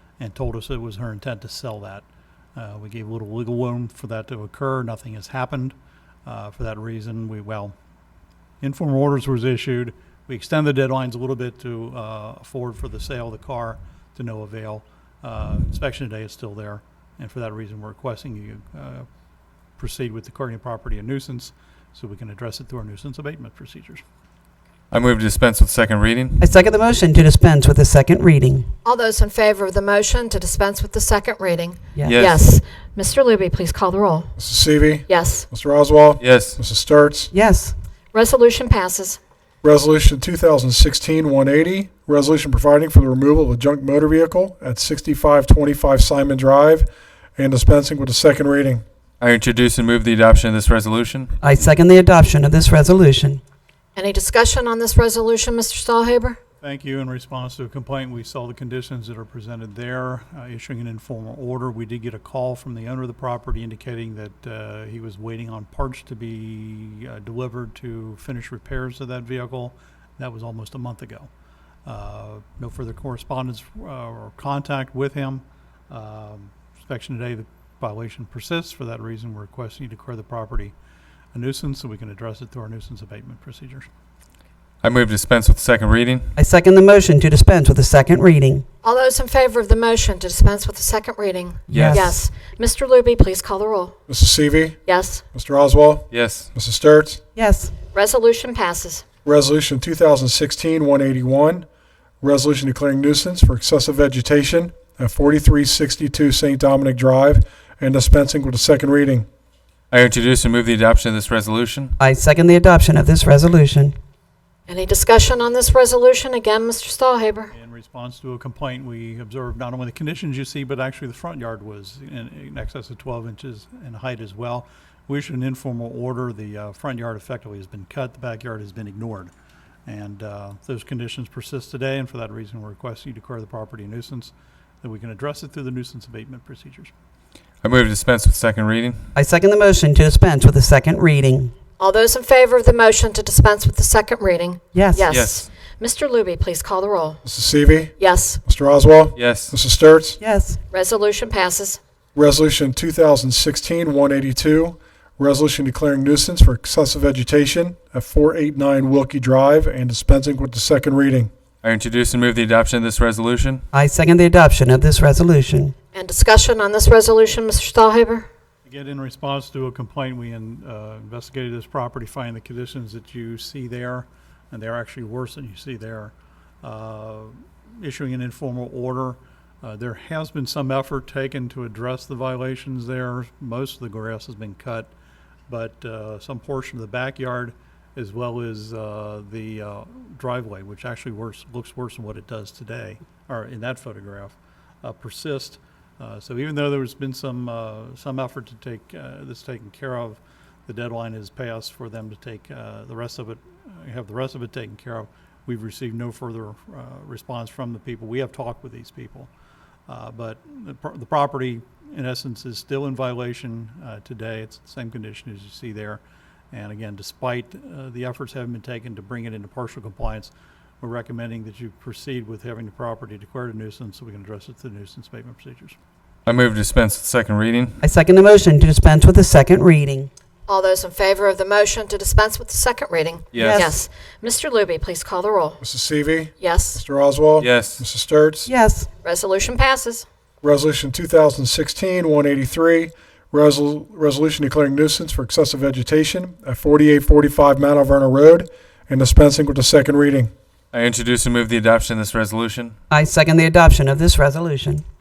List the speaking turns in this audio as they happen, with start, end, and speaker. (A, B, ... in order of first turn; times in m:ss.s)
0:00.2-0:05.8 A
0:06.3-0:07.8 A
0:08.6-0:19.1 A
0:19.8-0:24.0 A
0:24.9-0:26.4 B
0:26.4-0:28.7 C
0:28.8-0:34.3 D
0:32.0-0:32.5 B
0:34.4-0:37.3 E
0:35.1-0:35.5 D
0:36.2-0:36.6 B
0:37.3-0:37.7 C
0:38.1-0:39.2 D
0:39.6-0:48.8 E
0:49.2-0:51.4 B
0:51.4-0:53.4 C
0:54.0-0:56.4 D
0:56.6-1:11.3 A
1:11.9-1:20.7 A
1:21.3-1:23.9 A
1:24.8-1:26.3 B
1:26.4-1:28.6 C
1:28.8-1:34.0 D
1:31.7-1:32.2 C
1:31.7-1:32.0 B
1:34.1-1:34.8 E
1:34.9-1:35.2 D
1:35.3-1:37.2 E
1:36.1-1:36.5 B
1:37.4-1:37.7 C
1:37.9-1:39.0 D
1:39.2-1:41.7 E
1:42.2-1:49.3 E
1:49.9-1:52.0 B
1:52.0-1:54.0 C
1:54.7-1:57.5 D
1:57.5-2:09.3 A
2:09.9-2:16.9 A
2:17.6-2:19.1 B
2:19.2-2:21.5 C
2:21.8-2:27.2 D
2:24.7-2:25.1 C
2:25.1-2:25.5 B
2:27.2-2:30.2 E
2:28.0-2:28.4 D
2:29.2-2:29.5 B
2:30.2-2:30.6 C
2:30.7-2:31.8 D
2:32.2-2:41.3 E
2:41.6-2:43.6 B
2:43.7-2:45.7 C
2:45.9-2:48.3 D
2:48.7-3:04.9 A
3:05.5-3:29.3 A
3:29.9-3:36.0 A
3:36.5-3:45.8 A
3:46.3-3:47.8 B
3:47.8-3:50.1 C
3:50.5-3:55.6 D
3:53.3-3:53.7 B
3:53.3-3:53.8 C
3:55.6-3:58.5 E
3:56.4-3:56.8 D
3:57.4-3:57.9 B
3:58.5-3:58.9 C
3:59.0-4:00.1 D
4:00.4-4:10.3 E
4:10.7-4:12.8 B
4:12.9-4:14.8 C